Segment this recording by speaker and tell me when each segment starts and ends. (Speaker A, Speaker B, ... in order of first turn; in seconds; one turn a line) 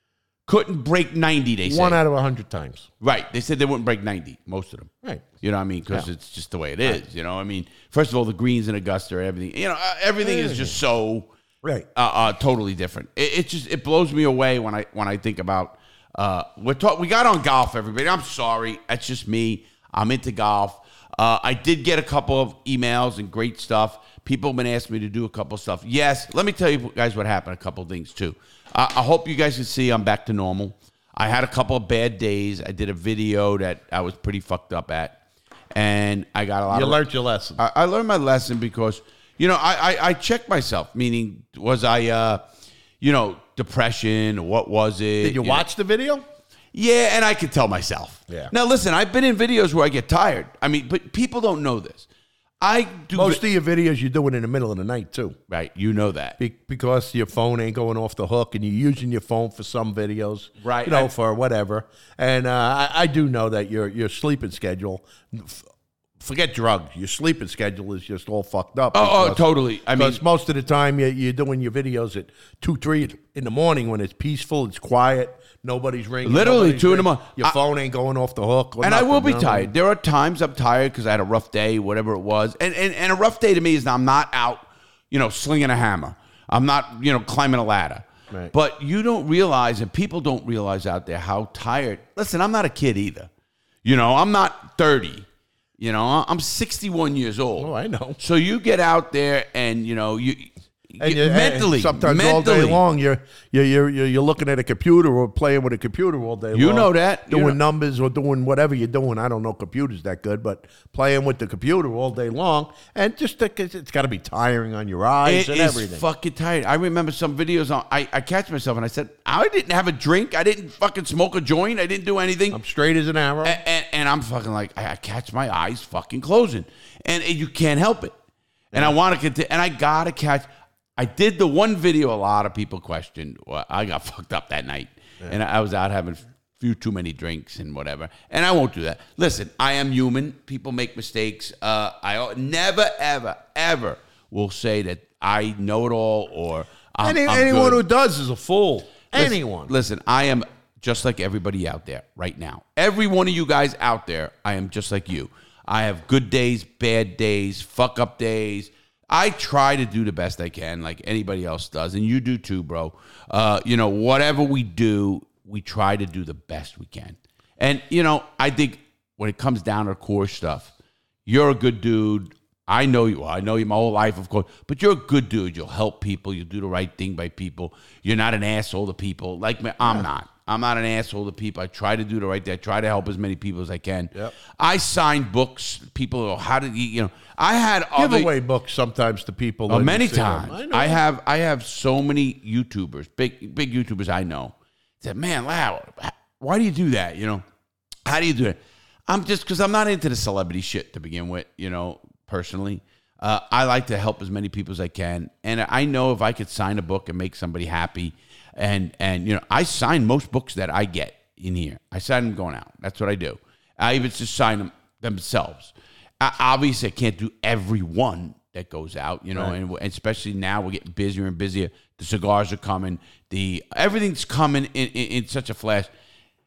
Speaker A: 0.5-2.0
Speaker B: 1.6-2.9
Speaker A: 3.0-11.3
Speaker B: 10.2-10.8
Speaker A: 11.9-35.2
Speaker A: 35.7-37.0
Speaker B: 36.7-37.6
Speaker A: 37.6-42.4
Speaker A: 43.0-45.6
Speaker B: 45.2-46.2
Speaker A: 46.7-52.1
Speaker A: 52.6-53.4
Speaker B: 53.1-55.4
Speaker A: 55.5-56.4
Speaker B: 56.4-65.7
Speaker A: 60.6-61.1
Speaker B: 66.2-79.7
Speaker A: 68.9-70.2
Speaker A: 76.2-77.5
Speaker A: 78.8-93.3
Speaker A: 93.8-95.2
Speaker A: 95.8-102.8
Speaker B: 97.6-98.2
Speaker B: 101.0-116.0
Speaker A: 106.5-107.6
Speaker A: 115.2-122.6
Speaker B: 122.5-123.6
Speaker A: 123.4-128.1
Speaker A: 128.7-147.8
Speaker B: 147.0-149.7
Speaker A: 149.1-170.7
Speaker A: 171.2-188.3
Speaker B: 187.9-191.0
Speaker A: 189.7-197.4
Speaker A: 198.1-198.6
Speaker A: 199.1-225.9